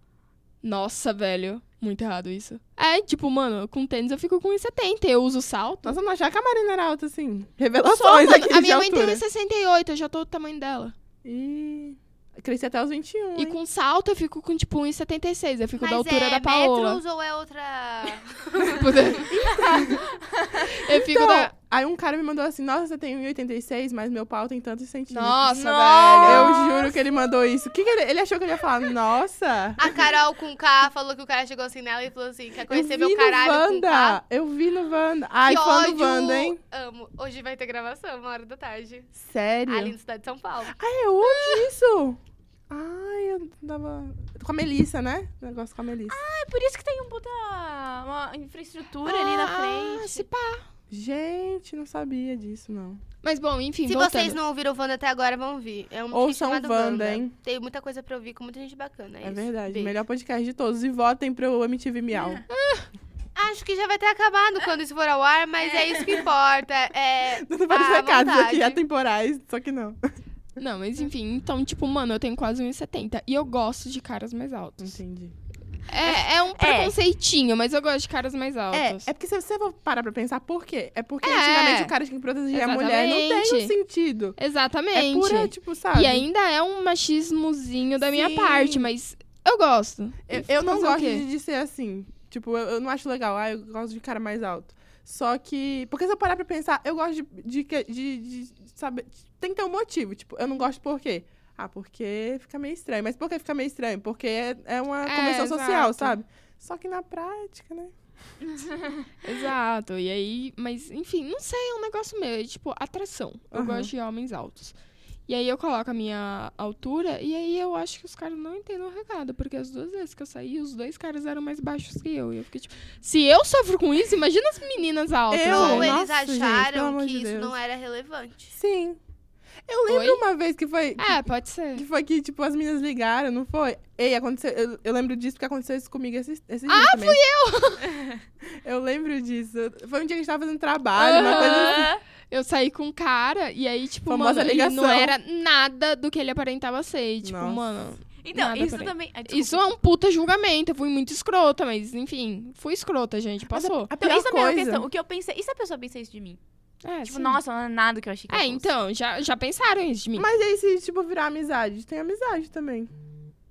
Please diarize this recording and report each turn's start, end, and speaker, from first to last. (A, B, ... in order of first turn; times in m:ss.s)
0:00.6-0:06.0 A
0:05.8-0:09.2 B
0:07.9-0:10.9 A
0:11.2-0:13.6 B
0:13.3-0:17.0 A
0:15.8-0:19.6 C
0:18.6-0:20.0 A
0:19.3-0:20.0 B
0:19.6-0:20.7 D
0:20.6-0:21.5 A
0:20.9-0:30.0 B
0:25.1-0:26.7 A
0:25.5-0:26.9 D
0:29.8-0:34.2 C
0:32.7-0:36.6 B
0:35.4-0:39.1 C
0:39.2-0:39.9 B
0:39.7-0:40.8 C
0:40.7-0:42.2 B
0:41.2-0:41.7 A
0:42.7-0:46.2 B
0:46.1-0:50.2 D
0:49.0-0:50.6 A
0:50.9-0:53.0 B
0:53.2-0:54.4 A
0:53.8-1:00.0 C
0:56.1-0:57.3 B
0:59.2-1:02.4 B
1:02.1-1:02.4 D
1:02.5-1:02.9 A
1:03.3-1:08.8 C
1:05.6-1:06.2 D
1:07.3-1:10.0 B
1:10.6-1:15.0 A
1:14.8-1:15.3 B
1:15.9-1:19.1 A
1:16.0-1:16.9 D
1:18.7-1:24.4 B
1:21.2-1:21.9 A
1:22.5-1:23.7 A
1:24.4-1:31.2 A
1:24.9-1:26.2 B
1:28.0-1:28.9 B
1:30.3-1:47.9 B
1:45.0-1:46.2 A
1:48.5-1:49.0 D
1:49.2-1:54.7 A
1:53.5-1:53.9 B
1:55.3-2:05.9 A
2:05.3-2:07.5 B
2:05.4-2:08.6 C
2:08.6-2:09.0 B
2:09.7-2:17.2 B
2:09.9-2:10.2 A
2:11.0-2:11.9 A
2:16.7-2:18.0 A
2:18.6-2:21.9 B
2:20.9-2:33.9 A
2:21.2-2:22.0 D
2:24.1-2:25.2 B
2:27.2-2:27.6 B
2:28.2-2:29.6 D
2:33.5-2:34.8 B
2:34.0-2:36.4 D
2:36.8-2:37.4 A
2:37.0-2:38.7 D
2:38.3-2:40.3 A
2:40.2-2:42.9 B